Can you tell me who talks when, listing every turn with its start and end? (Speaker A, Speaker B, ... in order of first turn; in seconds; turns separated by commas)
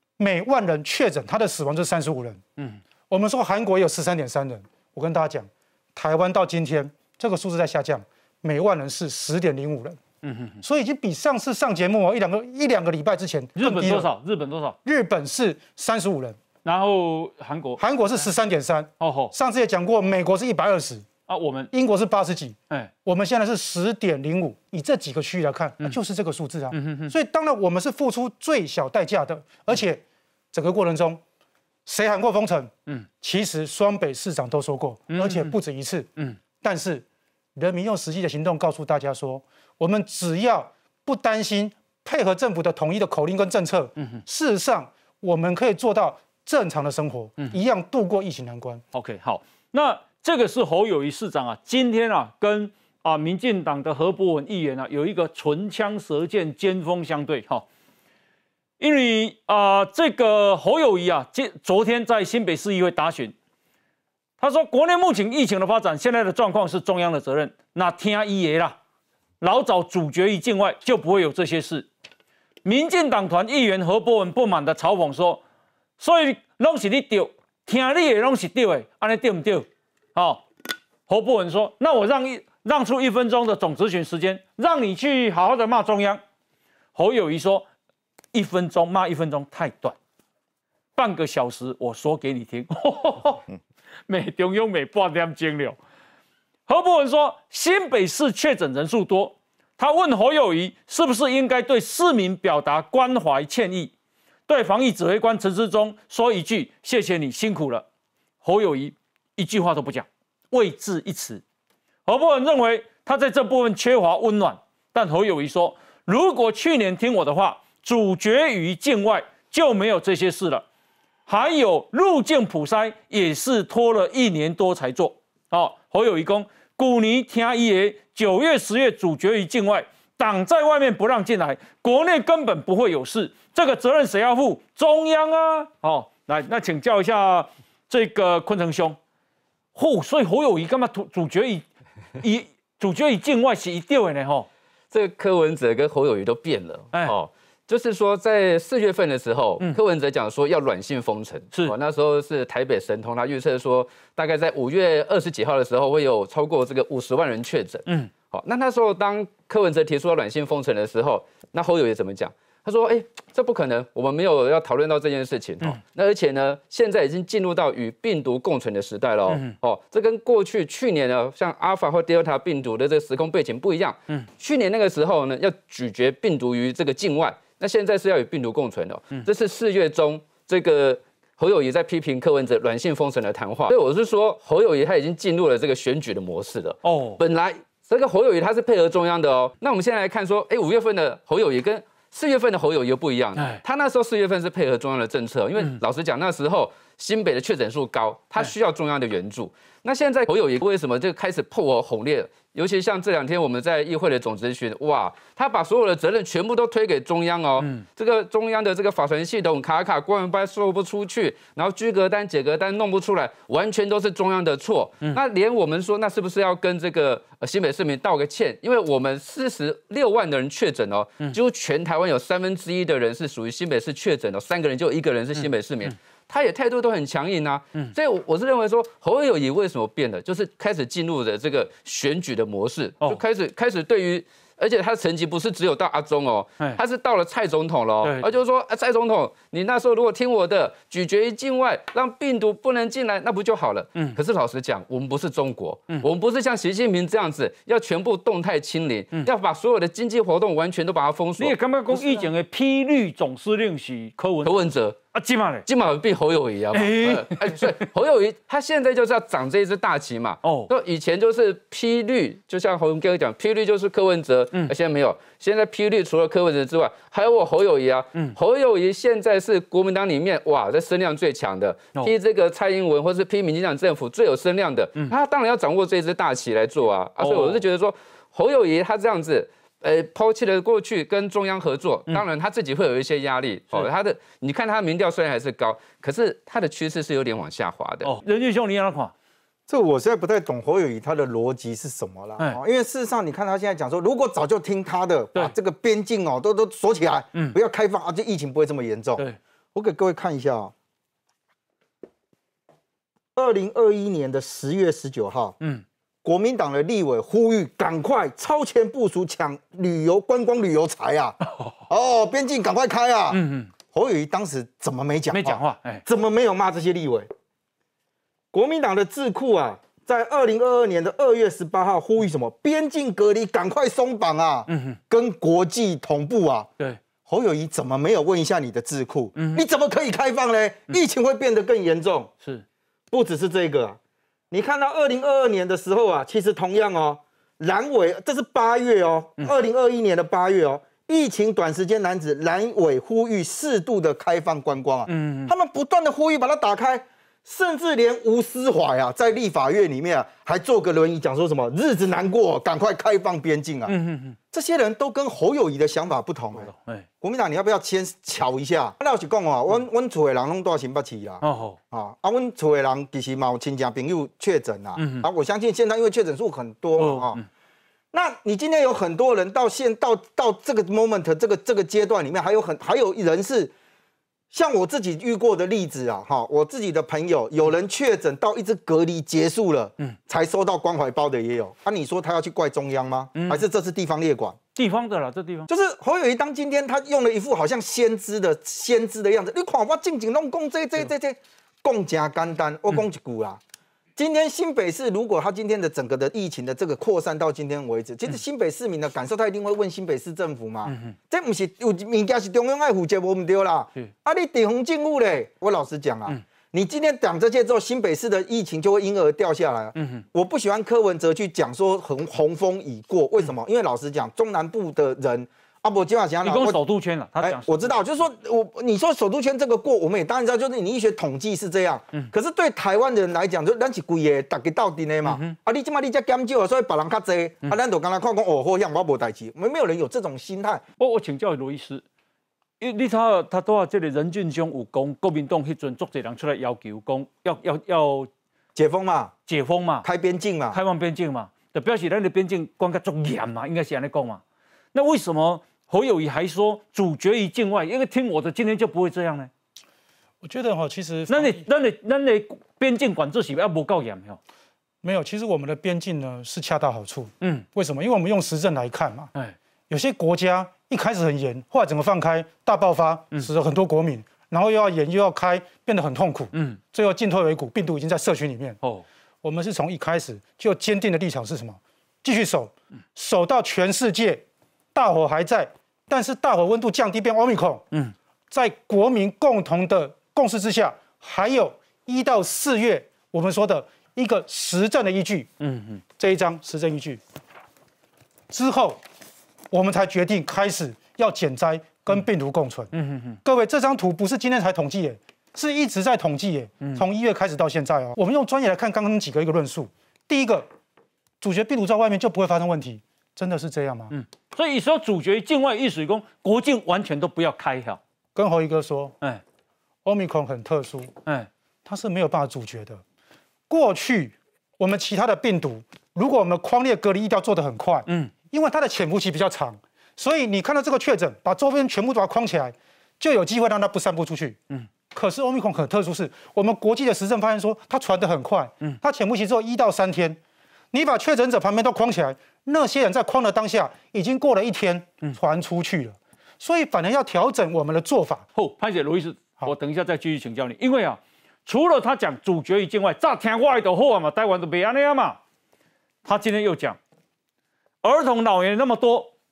Speaker A: 0.2-2.4, Speaker A: 3.1-10.0, Speaker B: 10.2-10.6, Speaker A: 10.6-14.1, Speaker B: 13.6-14.8, Speaker A: 14.8-16.4, Speaker B: 16.6-18.3, Speaker A: 17.8-21.1, Speaker B: 19.0-19.3, Speaker B: 21.3-21.7, Speaker A: 21.7-30.0, Speaker B: 26.7-27.1, Speaker A: 30.5-31.2, Speaker A: 31.9-37.0, Speaker B: 35.1-35.5, Speaker A: 37.6-48.8, Speaker B: 44.0-44.2, Speaker B: 48.9-57.7, Speaker B: 58.8-63.3, Speaker B: 64.4-68.8, Speaker B: 69.4-71.9, Speaker B: 72.7-75.4, Speaker B: 76.0-80.5, Speaker B: 81.1-86.2, Speaker B: 87.0-87.7, Speaker B: 88.3-90.0, Speaker B: 91.0-93.4, Speaker B: 94.1-95.8, Speaker B: 96.7-103.9, Speaker B: 104.5-107.8, Speaker B: 108.4-111.4, Speaker B: 112.1-120.7, Speaker B: 121.3-139.0, Speaker B: 139.8-141.7, Speaker B: 142.2-144.5, Speaker C: 144.9-252.3, Speaker B: 169.3-169.6, Speaker B: 186.8-187.2, Speaker B: 225.4-225.9, Speaker B: 251.4-254.5, Speaker C: 254.4-255.0, Speaker B: 255.1-255.7, Speaker C: 255.7-288.1, Speaker B: 256.7-257.9, Speaker B: 260.4-260.7, Speaker B: 277.2-277.6, Speaker B: 288.0-289.1, Speaker D: 289.7-300.7, Speaker D: 303.4-305.6, Speaker D: 306.2-311.4, Speaker B: 311.4-311.8, Speaker D: 311.9-317.3, Speaker B: 313.3-313.7, Speaker B: 315.3-316.0, Speaker D: 318.5-326.7, Speaker B: 324.7-325.0, Speaker D: 327.2-332.3, Speaker B: 329.4-329.6, Speaker D: 333.1-334.0, Speaker D: 334.5-353.9, Speaker B: 345.1-345.5, Speaker B: 353.9-354.4, Speaker D: 354.5-367.4, Speaker B: 356.6-357.1, Speaker B: 361.4-361.8, Speaker B: 365.0-365.3, Speaker B: 367.0-367.4, Speaker D: 368.1-373.7, Speaker D: 374.5-384.6, Speaker B: 383.4-383.6, Speaker B: 384.8-385.7, Speaker D: 385.7-393.6, Speaker D: 394.2-416.8, Speaker B: 400.9-401.1, Speaker B: 409.9-410.2, Speaker B: 416.4-418.0, Speaker D: 417.4-430.8, Speaker B: 425.3-425.6, Speaker B: 431.0-432.0, Speaker B: 432.8-438.3, Speaker D: 438.8-439.3, Speaker B: 439.5-440.1, Speaker D: 440.0-440.8, Speaker B: 440.7-444.4, Speaker B: 444.9-449.5, Speaker A: 450.4-451.6, Speaker B: 451.3-454.4, Speaker A: 455.0-459.3, Speaker A: 459.9-468.8, Speaker B: 466.5-466.8, Speaker A: 469.4-474.4, Speaker A: 474.9-477.9, Speaker A: 478.5-485.5, Speaker B: 485.6-486.0, Speaker A: 486.2-487.2, Speaker A: 488.5-489.0, Speaker A: 489.7-492.9, Speaker B: 492.9-493.4, Speaker A: 493.4-500.7, Speaker A: 501.4-504.1, Speaker B: 504.1-508.0, Speaker A: 508.4-509.2, Speaker A: 510.1-511.2, Speaker A: 511.9-513.0, Speaker A: 513.7-524.6, Speaker B: 518.1-518.3, Speaker A: 525.1-530.4, Speaker A: 530.9-538.5, Speaker B: 538.6-545.4, Speaker B: 546.2-547.0, Speaker B: 548.0-549.3